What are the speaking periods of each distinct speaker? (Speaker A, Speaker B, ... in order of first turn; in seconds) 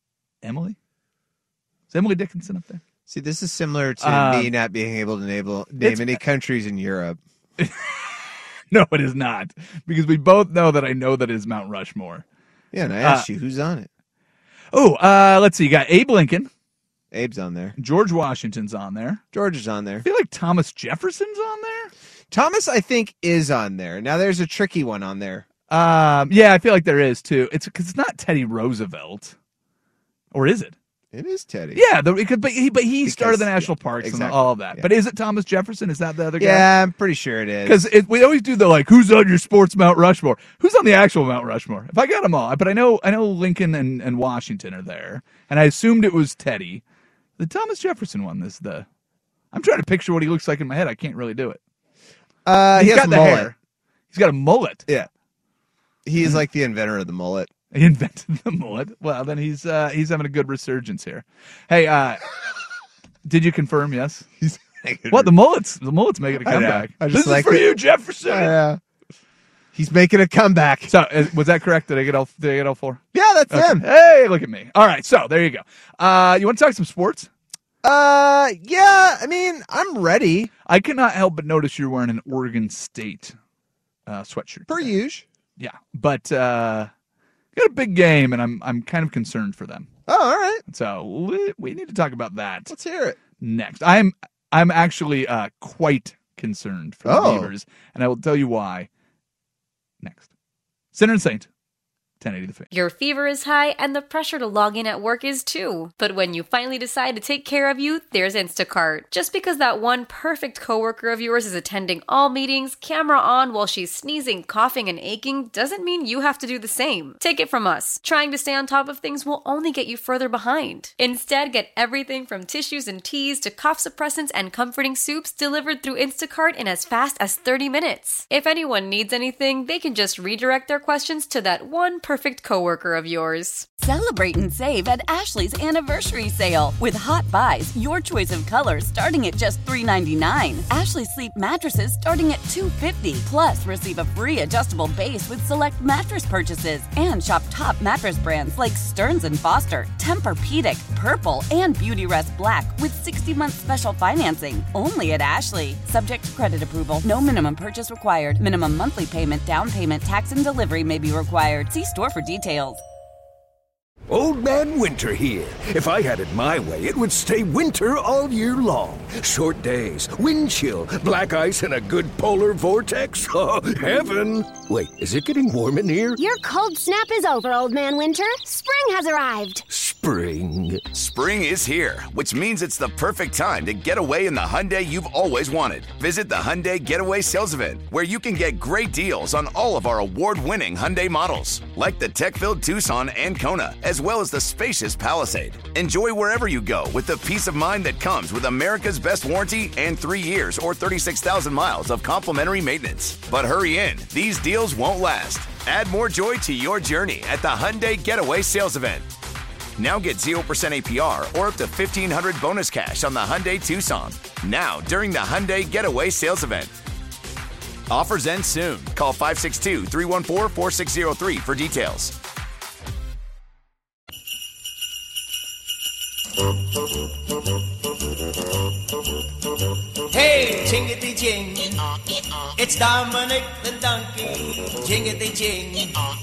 Speaker A: 0.4-0.8, 1.9-2.8, 4.0-4.5, 5.8-6.2, 7.6-12.2, 13.0-13.3, 14.7-16.5, 17.8-19.2, 20.0-21.9, 25.7-29.4, 30.3-30.8, 31.8-36.7, 37.6-46.8, 47.4-48.9, 49.5-51.6, 52.8-53.5, 54.1-54.9, 57.7-62.2, 63.2-64.3, 65.1-68.6, 70.9-77.3, 80.7-83.4, 84.1-84.9, 85.6-86.9, 87.5-89.9, 90.7-92.7, 93.4-98.9, 100.0-100.3, 100.9-101.5, 102.2-102.7
Speaker B: 3.1-7.2, 12.7-13.9, 17.1-17.8, 19.3-20.1, 22.3-25.5, 31.1-31.8, 33.0-34.9, 36.4-37.9, 52.5-53.5, 56.0-57.5, 64.4-65.3, 66.4-68.8, 69.7-70.9, 73.1-73.8, 77.8-80.5, 84.7-85.3, 90.1-90.6, 92.7-93.2, 97.0-97.5
Speaker C: 102.7-133.7
Speaker D: 133.8-162.8
Speaker E: 164.1-176.2, 179.7-181.0
Speaker F: 176.2-179.6
Speaker G: 180.9-209.1, 209.8-216.8, 217.9-222.2
Speaker H: 230.1-231.9, 232.6-236.1